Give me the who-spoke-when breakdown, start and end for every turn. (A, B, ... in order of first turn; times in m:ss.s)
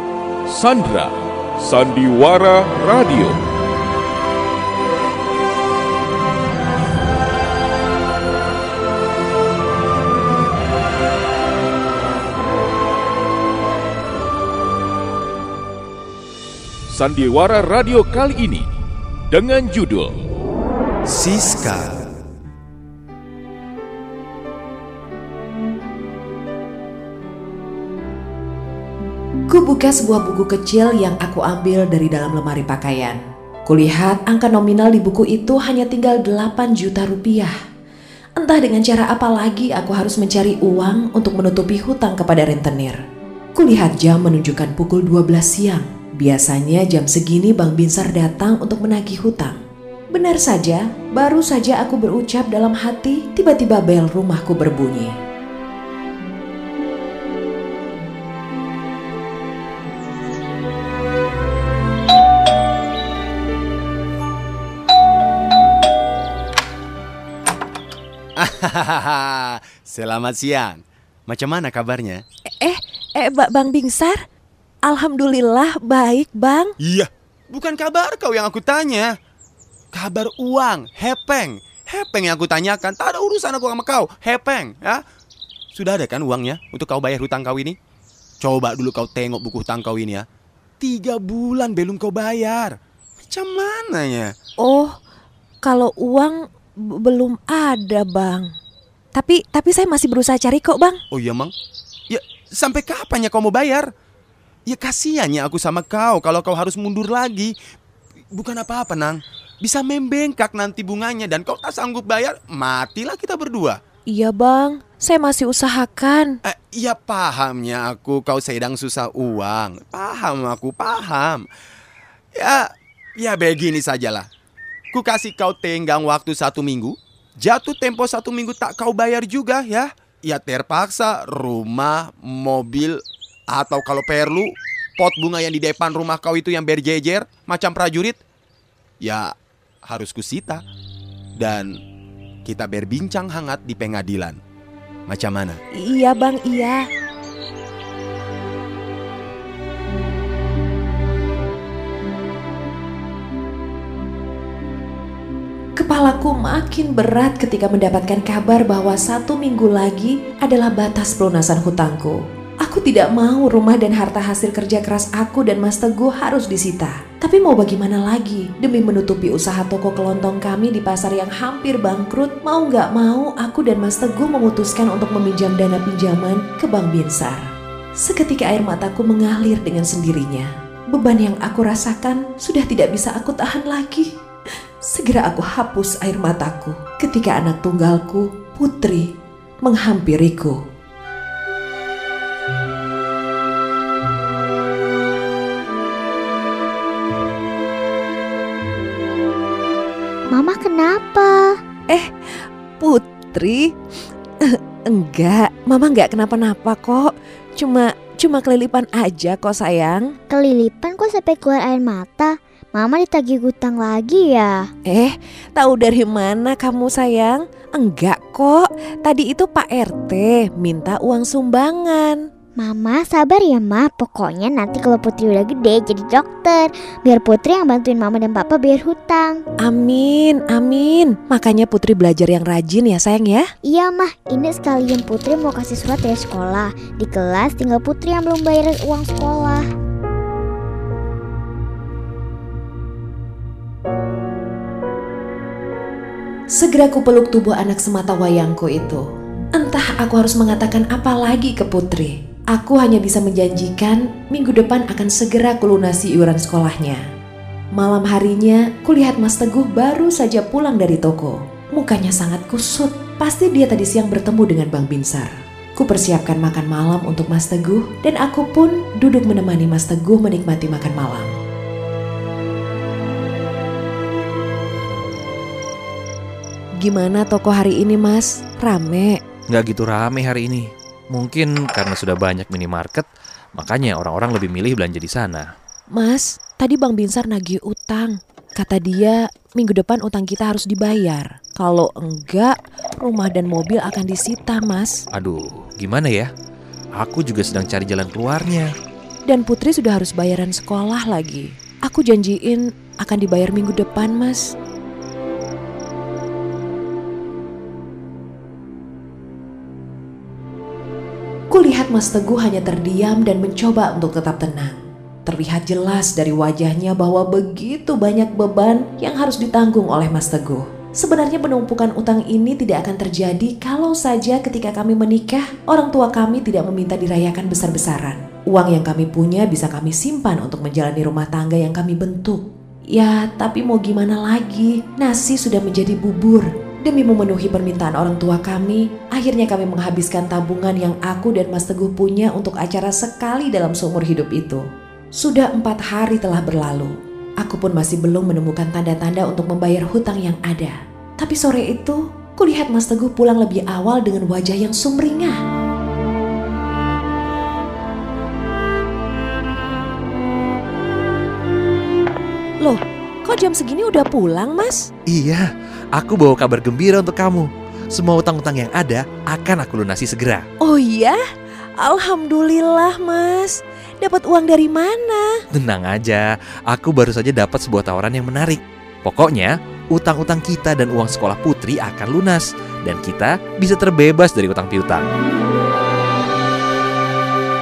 0:00.5-0:03.4 A
0:16.9-0:18.7 A
0:19.3-0:20.2 A
0:21.1-0:22.0 B
0:29.5-0:37.5 C
0:38.4-0:43.0 C
0:43.6-0:49.6 C
0:50.1-0:55.1 C
1:08.4-1:12.2 B
1:12.6-1:14.2 C
1:14.9-1:16.7 C
1:16.8-1:19.1 B
1:19.9-1:25.0 B
1:25.7-1:27.8 B
1:28.4-1:30.2 B
1:30.8-1:34.3 B
1:34.6-1:35.0 C
1:35.6-1:36.4 C
1:37.0-1:38.5 C
1:39.2-1:41.0 C
1:41.1-1:41.5 B
1:42.1-1:43.9 B
1:44.7-1:47.5 B
1:48.3-1:53.8 B
1:54.1-1:56.4 C
1:56.5-2:01.4 B
2:02.4-2:04.3 B
2:04.9-2:18.2 B
2:19.0-2:19.3 B
2:19.9-2:20.6 B
2:21.4-2:21.7 B
2:22.4-2:24.4 B
2:25.1-2:25.6 B
2:25.8-2:26.8 C
2:35.8-2:57.4 C
2:58.0-3:04.1 C
3:04.8-3:09.1 C
3:09.6-3:10.6 C
3:20.3-3:21.6 D
3:22.8-3:23.7 C
3:24.5-3:30.1 C
3:30.3-3:34.7 D
3:34.9-3:42.2 C
3:42.6-3:49.4 D
3:49.6-3:53.5 C
3:53.6-3:59.7 D
4:06.5-4:09.0 C
4:09.6-4:17.0 C
4:17.8-4:31.4 C
4:36.8-4:39.2 C
4:39.5-4:45.5 E
4:46.0-4:55.0 C
4:55.1-4:56.3 E
4:57.0-4:58.7 E
4:59.3-5:04.5 C
5:11.5-5:32.4 C
5:32.9-5:44.6 C
5:45.2-5:55.4 C
6:02.6-6:04.9 C
6:05.1-6:05.4 E
6:06.0-6:10.5 E
6:10.6-6:11.2 C
6:11.8-6:15.4 C
6:15.5-6:25.1 E